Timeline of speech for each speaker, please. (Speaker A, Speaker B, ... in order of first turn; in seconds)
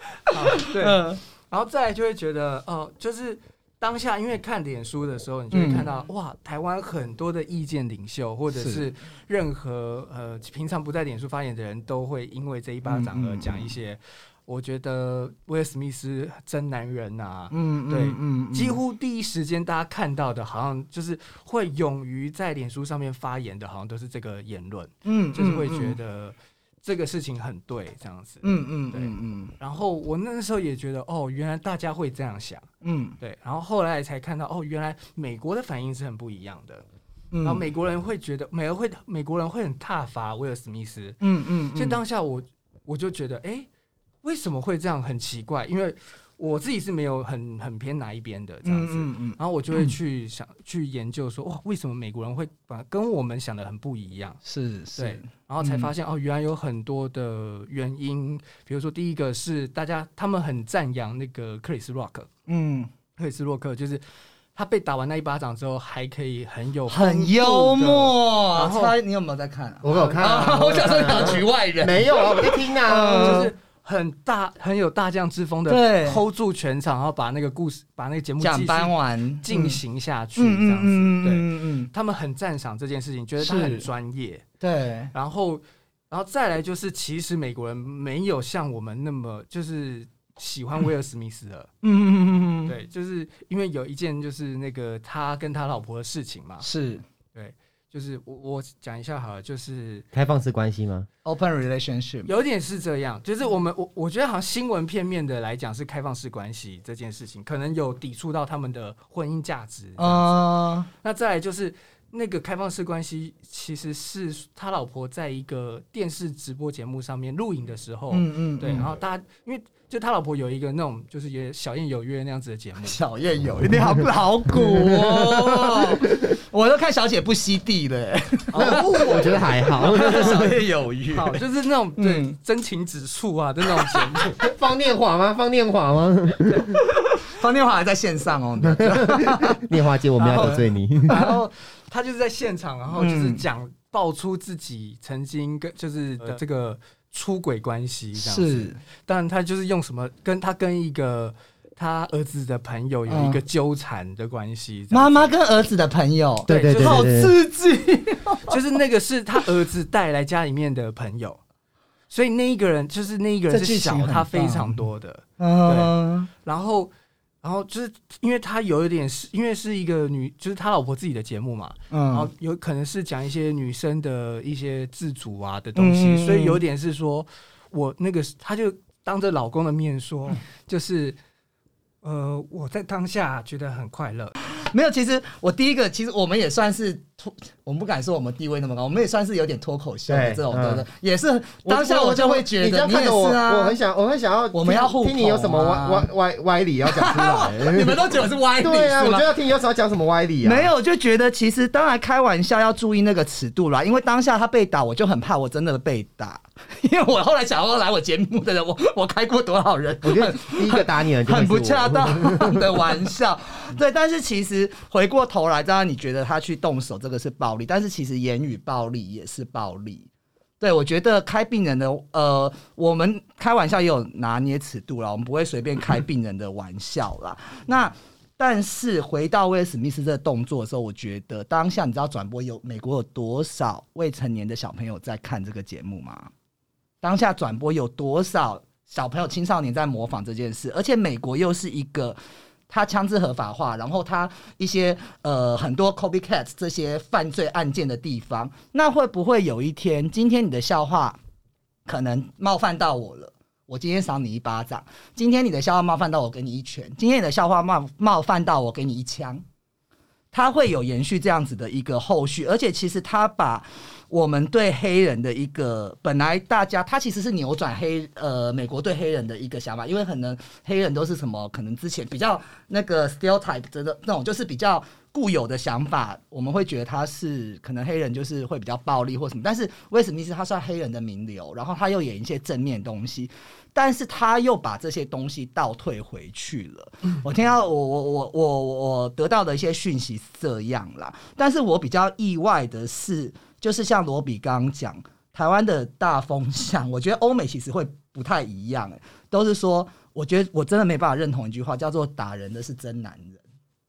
Speaker A: 0.3-1.2, 5.5-5.9, 8.5-8.8, 12.8-13.8, 17.5-18.8, 25.0-26.0, 28.4-29.5, 32.8-33.2, 37.3-37.6, 41.2-42.0, 48.6-49.9, 54.4-55.9, 62.5-62.9, 66.9-73.5, 75.7-76.2, 78.4-79.8, 80.4-81.9, 83.4-83.9, 84.6-85.1, 91.8-92.7, 96.6-97.0, 101.2-102.3, 110.0-110.9, 118.1-119.0, 122.8-131.4, 132.0-132.3, 133.8-134.2, 136.5-139.6, 140.2-141.4, 142.9-143.4, 148.1-148.8, 153.1-153.4, 154.9-158.6, 163.5-164.8, 165.4-166.3, 171.9-172.3, 175.7-176.6, 184.4-193.8, 194.5-196.1, 196.8-199.3, 200.4-220.1, 220.6-236.3, 237.0-242.2, 242.7-251.2, 251.8-259.4, 260.3-303.4
Speaker B: 0.3-32.7, 33.2-36.8, 37.4-43.7, 44.2-54.4, 55.0-62.3, 63.2-64.0, 64.5-68.9, 70.5-71.3, 72.9-84.4, 85.1-91.7, 92.7-96.7, 97.3-100.0, 102.2-123.0, 128.5-130.6, 131.1-134.3, 140.2-155.3, 156.5-157.1, 158.5-161.4, 162.1-166.9, 167.4-181.2, 182.0-184.3
Speaker C: 69.8-73.4, 100.1-101.1, 124.7-125.9, 128.6-130.5, 134.4-136.8, 138.6-141.2, 156.5-157.3, 190.1-190.8, 191.6-198.0, 198.6-200.7, 210.0-212.6